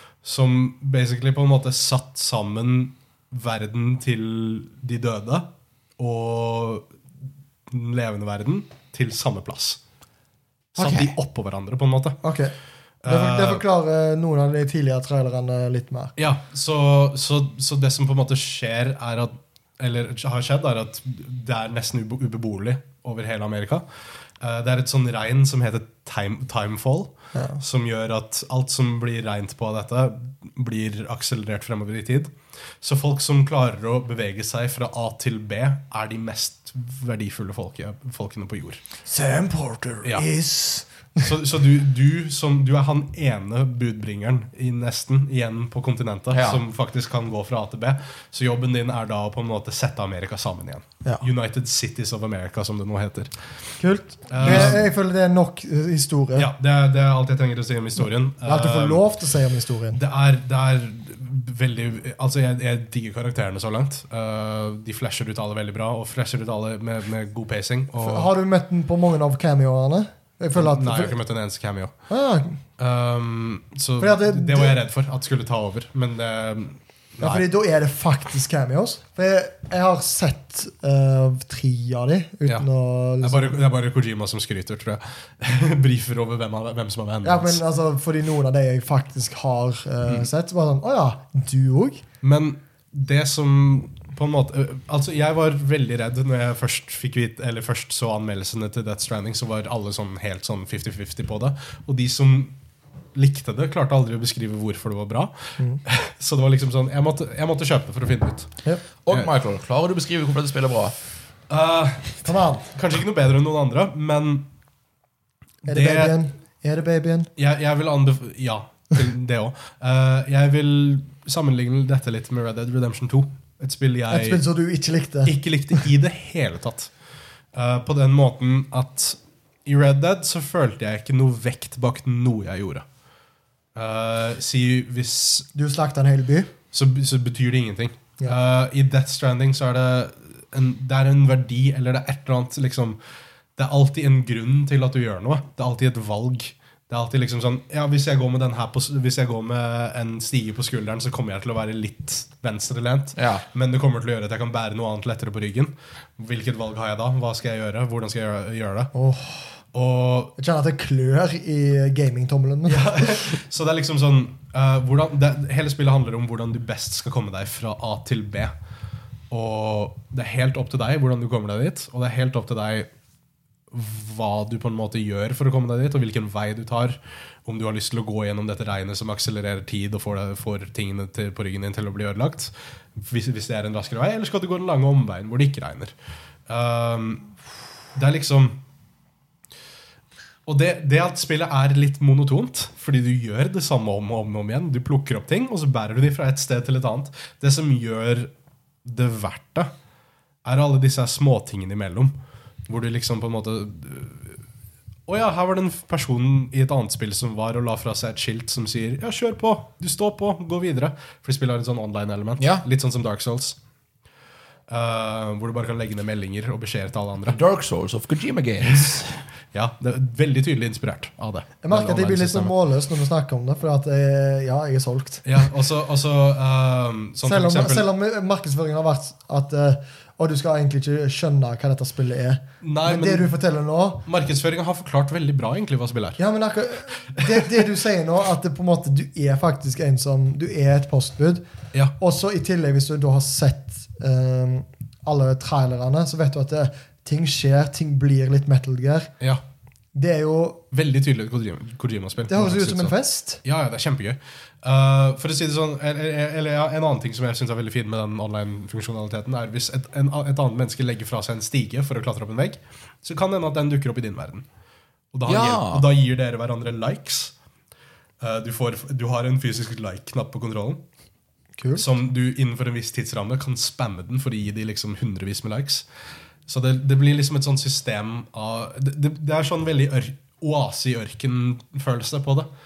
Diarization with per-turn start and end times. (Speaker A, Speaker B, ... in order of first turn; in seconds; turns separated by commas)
Speaker A: 0.2-6.9, Speaker A: 7.7-9.8, Speaker A: 10.7-12.2, Speaker B: 10.8-11.1, Speaker C: 12.2-12.5, Speaker A: 13.0-13.6, Speaker C: 13.1-16.1, Speaker A: 16.2-23.8, Speaker A: 24.4-38.8, Speaker C: 27.3-27.6, Speaker C: 39.0-41.3, Speaker A: 41.2-53.3, Speaker B: 46.3-46.6, Speaker C: 53.8-56.5, Speaker A: 54.3-54.9, Speaker A: 56.4-59.0, Speaker C: 58.4-60.0, Speaker A: 59.9-68.3, Speaker C: 68.0-71.2, Speaker A: 70.5-71.9, Speaker C: 72.1-72.6, Speaker A: 72.8-77.4, Speaker C: 74.0-74.8, Speaker C: 77.2-83.5, Speaker A: 83.2-87.6, Speaker C: 87.2-92.0, Speaker A: 92.2-102.5, Speaker A: 103.1-108.5, Speaker B: 109.0-110.9, Speaker A: 111.5-114.5, Speaker C: 112.2-112.7, Speaker A: 115.7-116.2, Speaker C: 115.7-117.3, Speaker A: 117.4-124.4, Speaker C: 124.1-125.3, Speaker A: 125.2-126.9, Speaker A: 127.5-132.8, Speaker A: 133.7-135.5, Speaker C: 135.5-136.5, Speaker A: 136.7-143.0, Speaker A: 143.6-158.9, Speaker B: 153.2-153.4, Speaker C: 158.9-159.6, Speaker A: 159.7-160.3, Speaker C: 160.4-163.3, Speaker A: 162.7-168.5, Speaker A: 169.3-172.9, Speaker A: 173.7-185.9, Speaker A: 186.5-187.3, Speaker A: 187.9-188.6, Speaker A: 190.4-198.3, Speaker A: 198.8-199.7, Speaker A: 200.4-202.2, Speaker A: 202.7-204.4, Speaker A: 205.1-213.6, Speaker B: 212.4-212.6, Speaker A: 214.7-217.4, Speaker B: 217.2-219.2, Speaker A: 219.5-222.5, Speaker C: 221.6-225.4, Speaker A: 225.2-227.8, Speaker C: 227.2-234.0, Speaker A: 232.6-233.3, Speaker A: 234.0-236.2, Speaker C: 236.2-241.4, Speaker A: 237.1-237.6, Speaker C: 242.0-249.1, Speaker C: 249.9-250.6, Speaker A: 250.7-264.4, Speaker C: 252.3-253.4, Speaker A: 265.1-267.3, Speaker B: 265.2-265.8, Speaker A: 268.2-270.8, Speaker C: 271.6-271.9, Speaker A: 271.8-275.9, Speaker A: 276.5-282.5